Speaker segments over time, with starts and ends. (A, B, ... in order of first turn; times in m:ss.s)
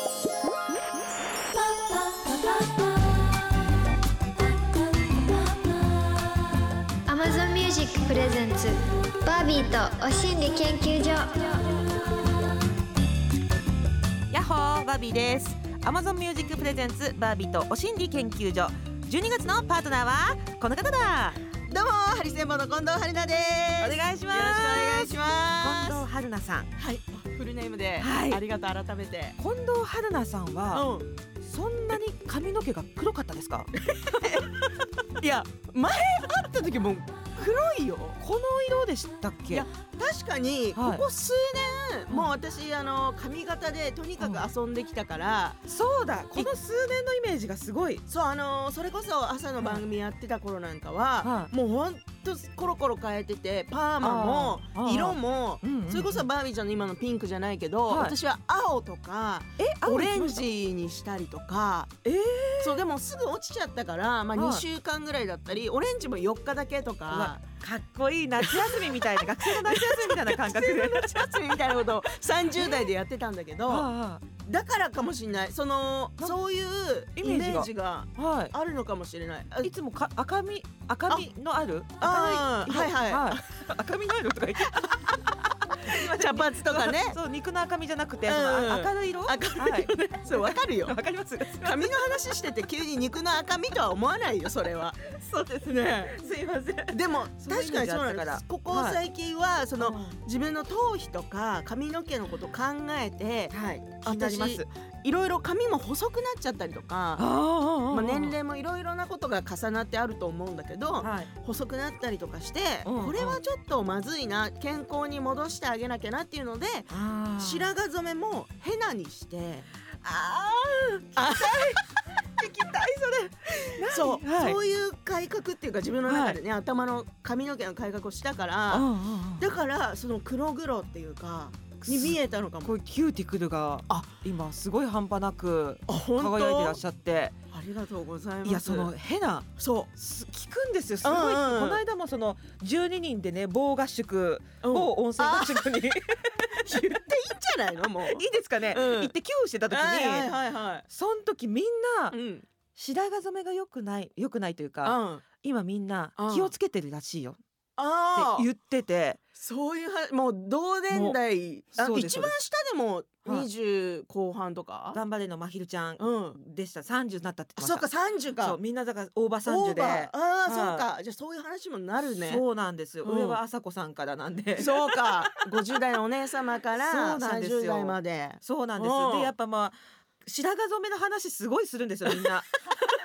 0:01.5-0:03.5 A
0:04.7-0:06.3 A
0:07.0-0:12.0 A
0:14.3-0:21.4 B
0:21.7-0:26.0 C
0:23.8-0:26.7 B
0:26.8-0:29.4 C
0:28.0-0:28.4 B
0:29.4-0:30.9 B
0:30.7-0:31.1 C
0:31.4-0:33.7 B
0:33.8-0:38.2 C
0:38.2-0:39.7 B
0:39.5-0:45.6 C
0:40.7-0:41.0 B
0:44.2-0:44.4 B
0:45.7-0:48.0 B
0:48.1-1:01.9 C
0:51.2-0:51.5 B
0:54.0-0:56.3 B
0:57.9-0:58.1 B
0:59.6-1:00.4 B
1:02.0-1:02.8 B
1:02.6-1:07.4 C
1:04.3-1:04.6 B
1:07.1-1:11.3 B
1:08.4-1:13.9 C
1:12.5-1:12.9 B
1:13.7-1:14.2 B
1:14.4-1:19.7 C
1:17.2-1:18.5 B
1:19.6-1:32.0 B
1:22.0-1:23.4 C
1:25.8-1:27.2 C
1:28.2-1:31.0 C
1:31.6-1:35.0 C
1:35.0-1:39.0 B
1:35.7-1:36.1 C
1:36.9-1:47.2 C
1:39.8-1:40.2 B
1:43.5-1:44.6 B
1:47.2-1:48.4 B
1:47.9-1:59.7 C
1:51.0-1:51.3 B
1:52.8-1:53.4 B
1:56.9-1:57.7 B
2:00.0-2:04.6 B
2:01.2-2:01.8 C
2:03.8-2:12.7 C
2:06.0-2:06.4 B
2:08.7-2:09.6 B
2:11.8-2:17.4 B
2:13.9-2:14.1 C
2:15.9-2:16.8 C
2:17.5-2:18.9 C
2:18.4-2:27.0 B
2:19.6-2:19.9 C
2:21.0-2:21.8 C
2:24.6-2:25.7 C
2:26.6-2:29.1 C
2:28.0-2:30.3 B
2:29.7-2:30.8 C
2:30.9-2:32.1 B
2:32.1-2:32.5 C
2:32.7-2:37.4 B
2:34.8-2:35.2 C
2:36.2-2:36.5 C
2:37.8-2:38.5 C
2:38.1-2:39.2 B
2:39.3-2:45.0 C
2:40.9-2:41.2 B
2:41.8-2:42.3 B
2:44.9-2:47.9 B
2:46.0-2:46.4 C
2:47.6-2:48.6 C
2:48.4-2:50.8 B
2:49.4-2:52.4 C
2:52.2-2:55.6 B
2:53.0-2:53.4 C
2:54.6-2:59.3 C
2:56.8-3:02.5 B